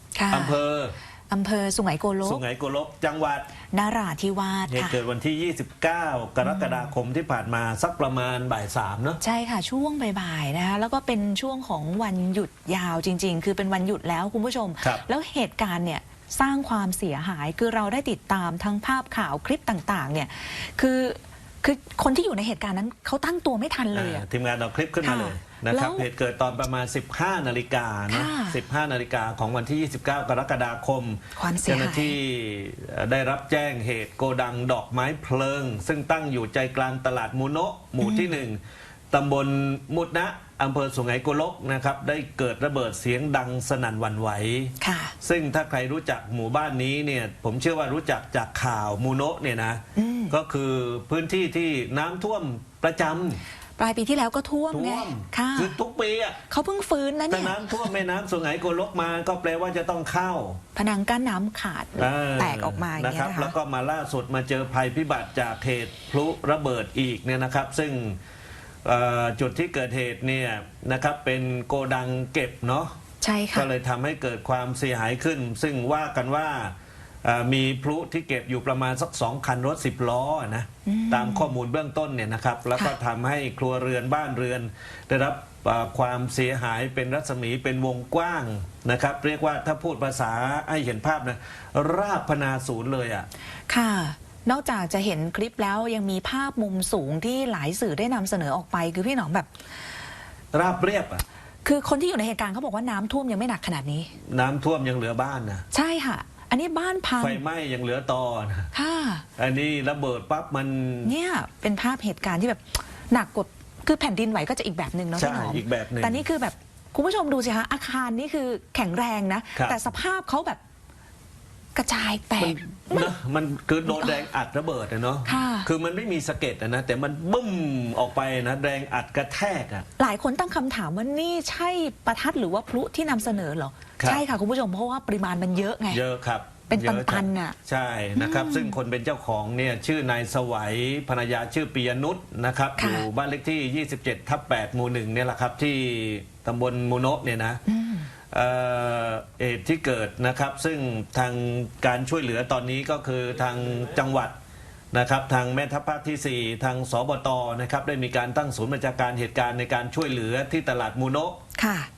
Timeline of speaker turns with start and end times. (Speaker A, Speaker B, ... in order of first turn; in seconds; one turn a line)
Speaker A: 0.1-0.6
Speaker B: 0.3-0.9
Speaker A: 1.3-2.4
Speaker B: 2.2-3.5
Speaker A: 3.7-5.0
Speaker B: 4.7-9.2
Speaker A: 6.4-6.9
Speaker A: 9.2-24.3
Speaker B: 23.9-38.6
Speaker A: 25.0-26.1
Speaker A: 28.1-28.6
Speaker A: 31.4-32.1
Speaker A: 38.0-38.3
Speaker B: 39.1-53.4
Speaker A: 44.8-45.1
Speaker A: 50.0-50.3
Speaker A: 53.8-55.8
Speaker B: 54.7-56.4
Speaker A: 56.5-57.9
Speaker B: 57.3-60.6
Speaker A: 60.8-63.5
Speaker B: 62.0-68.2
Speaker B: 68.8-73.0
Speaker A: 73.2-73.7
Speaker B: 73.5-93.3
Speaker A: 80.9-81.5
Speaker A: 93.7-99.5
Speaker B: 100.5-101.2
Speaker A: 101.6-104.1
Speaker B: 104.3-105.7
Speaker A: 105.7-107.4
Speaker B: 107.2-108.7
Speaker A: 108.7-109.2
Speaker B: 109.4-111.1
Speaker A: 111.0-120.6
Speaker B: 115.2-116.2
Speaker A: 121.8-123.1
Speaker B: 122.4-129.9
Speaker A: 123.9-124.2
Speaker A: 125.3-125.7
Speaker A: 130.0-136.0
Speaker B: 135.9-147.6
Speaker A: 136.7-137.6
Speaker A: 138.2-138.8
Speaker A: 142.8-143.1
Speaker A: 147.7-148.1
Speaker B: 148.3-154.4
Speaker B: 154.9-161.4
Speaker A: 161.6-161.9